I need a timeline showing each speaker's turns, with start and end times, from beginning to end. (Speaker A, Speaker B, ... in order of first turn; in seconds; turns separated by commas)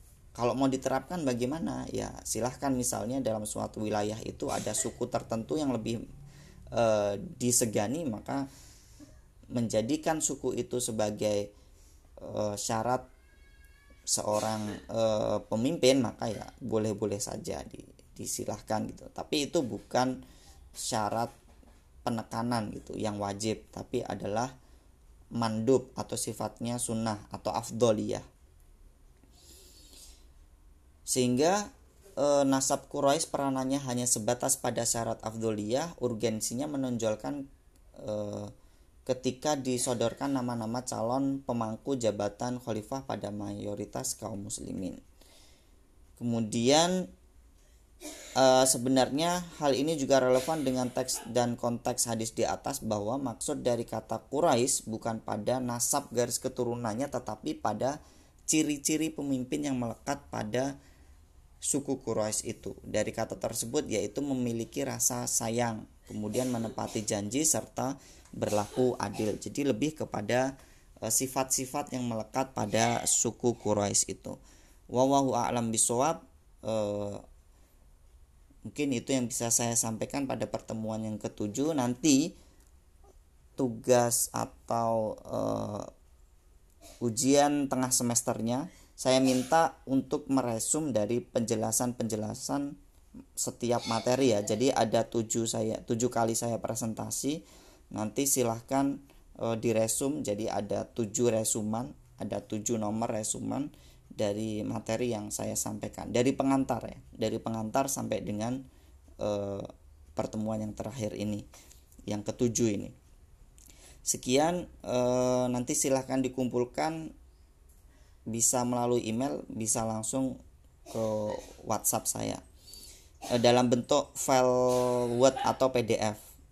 Speaker A: 0.3-6.0, Speaker A: 6.7-8.5, Speaker A: 9.5-11.5, Speaker A: 12.2-13.0, Speaker A: 14.1-20.2, Speaker A: 20.8-21.3, Speaker A: 22.0-24.5, Speaker A: 25.4-28.2, Speaker A: 31.1-31.6, Speaker A: 32.2-37.4, Speaker A: 38.0-38.5, Speaker A: 39.0-45.0, Speaker A: 46.2-47.0, Speaker A: 48.4-58.0, Speaker A: 58.5-60.7, Speaker A: 61.7-70.5, Speaker A: 71.0-74.4, Speaker A: 74.9-77.2, Speaker A: 78.7-82.3, Speaker A: 83.6-85.9, Speaker A: 87.0-92.7, Speaker A: 93.4-97.4, Speaker A: 97.9-108.6, Speaker A: 109.2-111.4, Speaker A: 112.1-112.9, Speaker A: 114.1-117.1, Speaker A: 118.3-120.4, Speaker A: 120.9-122.4, Speaker A: 123.3-126.2